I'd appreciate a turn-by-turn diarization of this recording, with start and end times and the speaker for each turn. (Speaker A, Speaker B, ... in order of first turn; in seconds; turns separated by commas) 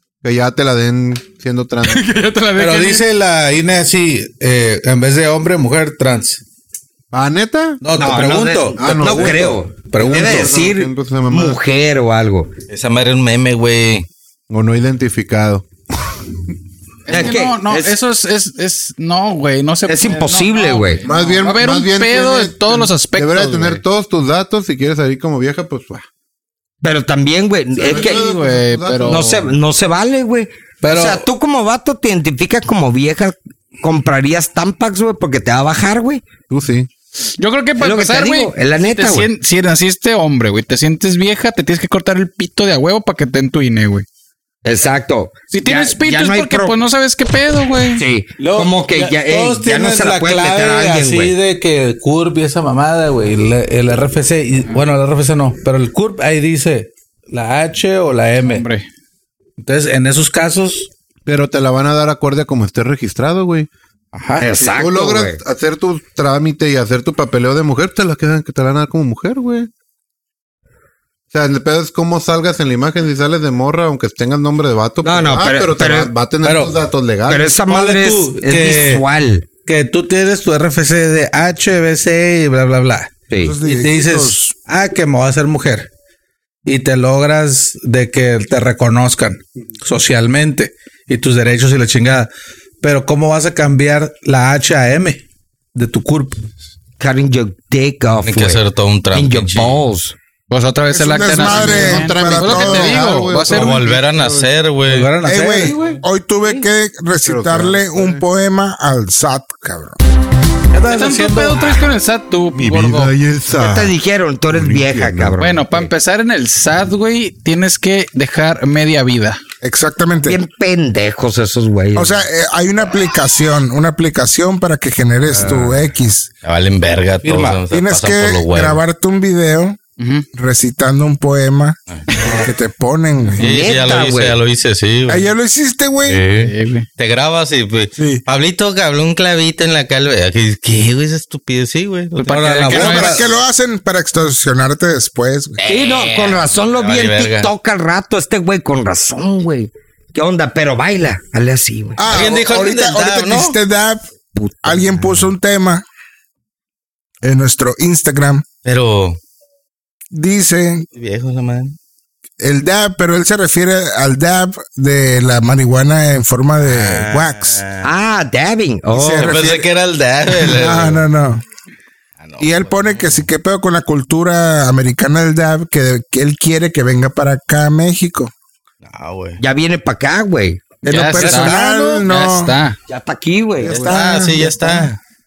Speaker A: 0.2-2.1, Speaker B: 1.9-3.1, Speaker C: 2.5-6.4, Speaker A: 7.1-7.8, Speaker C: 7.8-10.5, Speaker D: 8.0-12.5, Speaker A: 8.8-11.6, Speaker E: 12.7-14.1, Speaker A: 14.5-15.7, Speaker B: 17.1-23.8, Speaker D: 17.1-17.9, Speaker D: 19.9-21.1, Speaker A: 21.1-26.1, Speaker D: 26.8-28.3, Speaker A: 27.8-29.5, Speaker B: 28.0-29.5, Speaker D: 29.1-36.3, Speaker C: 30.8-31.2, Speaker A: 36.5-36.9, Speaker B: 37.4-44.0, Speaker D: 37.8-39.3, Speaker D: 44.6-46.8, Speaker B: 45.5-48.0, Speaker D: 47.9-51.4, Speaker C: 48.4-58.6, Speaker B: 58.4-58.9, Speaker C: 59.6-60.9, Speaker A: 61.3-63.7, Speaker C: 64.1-64.5, Speaker D: 64.4-65.4, Speaker A: 64.6-69.7, Speaker A: 71.3-77.6, Speaker D: 75.0-76.1, Speaker C: 76.4-76.8, Speaker D: 77.3-79.5, Speaker C: 77.6-79.0, Speaker C: 79.7-85.9, Speaker D: 83.3-83.6, Speaker F: 83.5-84.4, Speaker C: 86.7-92.3, Speaker C: 92.8-95.2, Speaker C: 95.8-96.4, Speaker D: 97.0-98.6, Speaker E: 98.2-99.8, Speaker D: 99.1-100.2, Speaker B: 100.5-103.8, Speaker F: 100.9-103.0, Speaker A: 101.4-104.5, Speaker E: 103.4-105.1, Speaker C: 104.9-105.8, Speaker F: 105.2-110.0, Speaker D: 105.5-106.7, Speaker A: 107.2-108.2, Speaker C: 110.7-111.8, Speaker B: 110.9-113.1, Speaker A: 112.5-114.0, Speaker D: 113.5-115.9, Speaker A: 114.5-115.4, Speaker B: 115.4-119.4, Speaker F: 119.6-120.4, Speaker D: 120.2-122.2, Speaker F: 122.0-126.3, Speaker D: 125.3-125.8, Speaker E: 126.4-128.8, Speaker C: 127.2-127.6, Speaker F: 127.7-129.8, Speaker B: 130.0-130.3, Speaker F: 130.3-133.5, Speaker D: 133.4-134.4, Speaker E: 133.4-135.3, Speaker F: 135.1-136.2, Speaker E: 136.1-143.2, Speaker B: 136.4-136.9, Speaker F: 138.0-138.2, Speaker C: 142.2-143.3, Speaker B: 142.3-143.2, Speaker F: 142.7-145.6, Speaker D: 145.6-152.1, Speaker E: 146.0-147.5, Speaker F: 152.0-154.0, Speaker E: 152.1-153.6, Speaker D: 154.3-155.3, Speaker F: 154.6-155.8, Speaker F: 157.2-158.4, Speaker E: 158.7-159.2, Speaker F: 160.1-160.9, Speaker E: 160.9-161.8, Speaker F: 162.4-167.6, Speaker E: 166.6-167.9, Speaker D: 167.8-169.5, Speaker F: 168.9-169.7, Speaker E: 169.2-171.0, Speaker F: 170.3-171.4, Speaker E: 172.2-173.2, Speaker F: 172.4-178.3, Speaker E: 178.8-179.4, Speaker D: 179.4-180.7, Speaker F: 180.8-182.6, Speaker B: 180.9-182.8, Speaker D: 182.9-184.0, Speaker F: 183.6-184.9, Speaker E: 183.7-185.0